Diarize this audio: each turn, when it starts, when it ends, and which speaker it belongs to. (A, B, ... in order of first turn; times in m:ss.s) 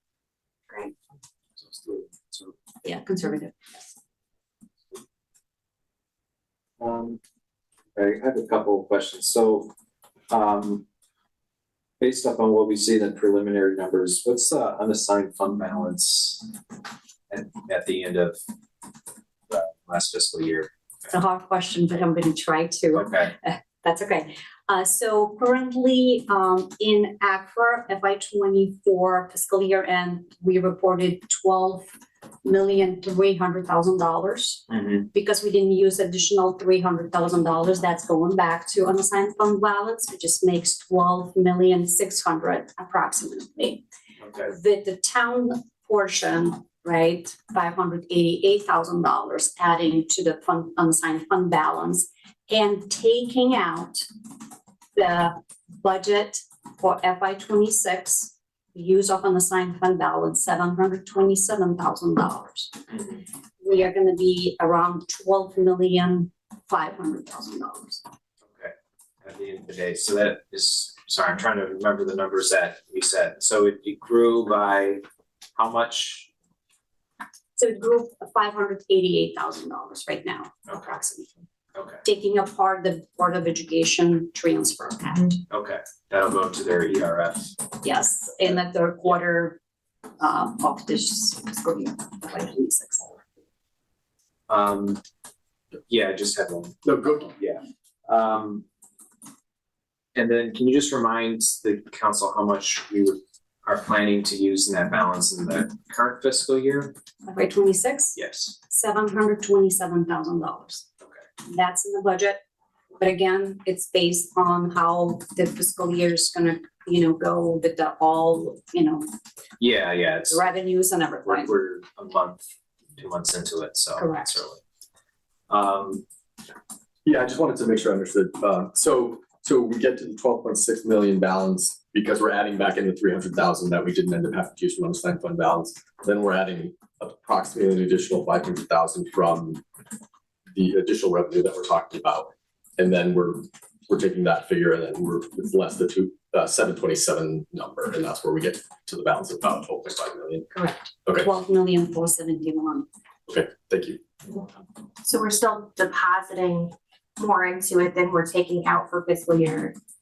0:01.6-0:02.5 A
0:02.8-0:03.8 B
0:06.8-0:07.2 A
0:07.9-0:09.7 A
0:10.3-0:10.8 A
0:12.0-0:16.5 A
0:17.3-0:18.4 A
0:19.5-0:20.7 A
0:21.1-0:31.9 B
0:22.9-0:23.3 A
0:32.4-0:43.8 B
0:34.7-0:35.0 A
0:44.2-0:44.5 A
0:44.4-0:54.0 B
0:54.9-1:02.8 B
1:03.6-1:08.0 B
1:08.5-1:15.0 A
1:15.6-1:16.3 A
1:17.6-1:21.3 B
1:20.7-1:20.9 A
1:21.7-1:22.0 A
1:22.0-1:25.4 B
1:25.5-1:27.5 A
1:27.8-1:29.6 B
1:30.2-1:33.2 B
1:34.5-1:35.0 A
1:35.9-1:38.6 A
1:36.8-1:37.3 C
1:40.1-1:46.9 A
1:47.2-1:48.2 B
1:48.1-1:48.5 A
1:48.7-1:50.8 B
1:51.4-1:52.4 B
1:53.0-1:59.1 B
1:59.6-2:00.4 A
2:00.3-2:01.5 B
2:01.2-2:02.4 A
2:03.0-2:04.6 A
2:04.0-2:04.3 B
2:05.5-2:06.0 A
2:07.0-2:19.6 C
2:20.5-2:30.5 C
2:30.5-2:32.9 B
2:33.3-2:34.0 C
2:35.0-2:39.8 D